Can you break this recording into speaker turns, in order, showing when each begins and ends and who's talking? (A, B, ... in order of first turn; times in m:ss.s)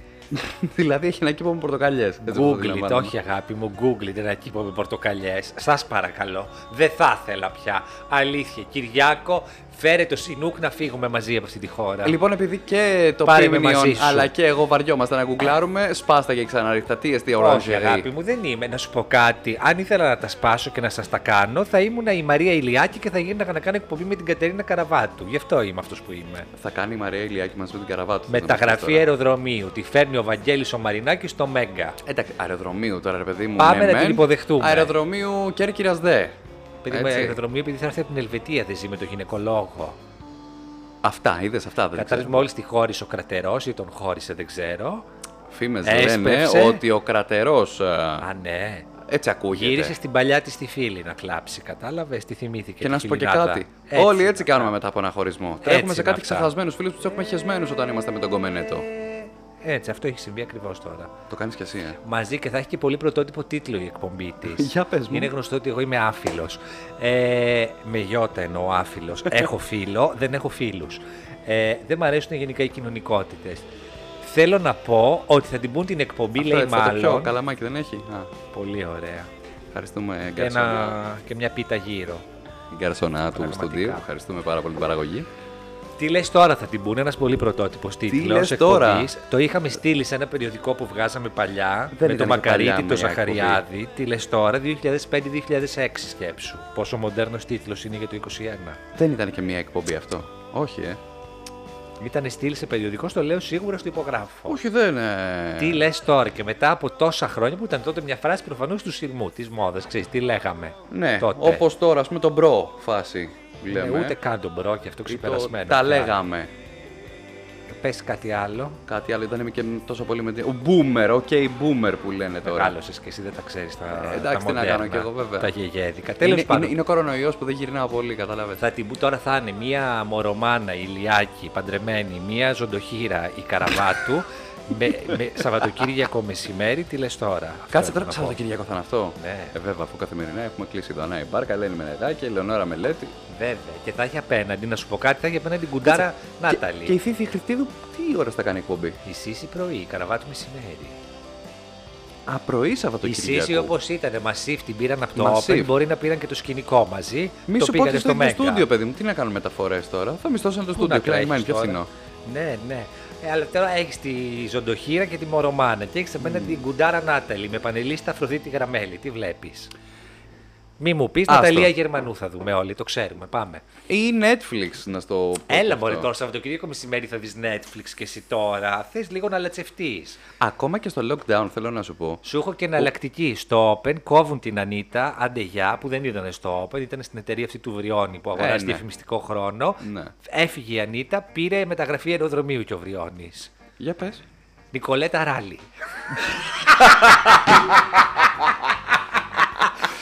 0:00.3-0:03.1 A
0:02.2-0:12.2 B
0:12.0-0:18.1 A
0:13.2-0:14.3 B
0:17.4-0:26.5 B
0:26.6-0:29.1 A
0:28.3-0:32.0 B
0:32.0-0:36.4 A
0:33.6-0:34.9 B
0:36.8-0:40.0 B
0:36.9-0:37.4 A
0:41.0-0:42.4 A
0:41.9-0:45.0 B
0:45.5-0:48.2 A
0:45.8-0:46.8 B
0:48.2-0:48.9 B
0:49.0-0:50.0 A
0:49.5-0:54.7 B
0:52.8-0:58.9 A
0:55.6-0:56.5 B
0:58.8-1:01.1 B
1:01.3-1:02.0 A
1:02.0-1:13.7 B
1:04.5-1:05.3 A
1:14.2-1:17.4 B
1:16.4-1:18.3 A
1:18.5-1:19.3 B
1:19.7-1:21.0 A
1:20.4-1:22.2 B
1:22.7-1:25.3 A
1:23.4-1:24.0 B
1:26.0-1:38.8 B
1:28.1-1:29.1 A
1:31.9-1:33.6 A
1:39.0-1:41.0 A
1:42.0-1:44.6 B
1:44.5-1:45.8 A
1:45.6-1:51.6 B
1:50.9-1:54.2 A
1:53.7-1:56.2 B
1:55.1-1:56.5 A
1:57.7-1:58.8 B
1:58.9-2:02.8 A
2:02.4-2:06.8 B
2:03.9-2:05.5 A
2:06.2-2:08.6 A
2:08.6-2:18.4 B
2:17.7-2:23.2 A
2:19.2-2:19.6 B
2:23.3-2:27.0 B
2:25.8-2:29.0 A
2:29.0-2:31.0 B
2:32.3-2:33.8 A
2:33.0-2:38.7 B
2:35.2-2:35.7 A
2:37.5-2:41.9 A
2:40.8-2:49.7 B
2:46.2-2:46.6 A
2:50.8-2:53.6 B
2:51.3-2:51.7 A
2:53.9-2:56.1 A
2:55.5-3:00.2 B
3:00.4-3:02.2 A
3:02.2-3:13.5 B
3:08.4-3:08.8 A
3:09.8-3:10.1 A
3:13.8-3:14.2 A
3:14.7-3:17.5 B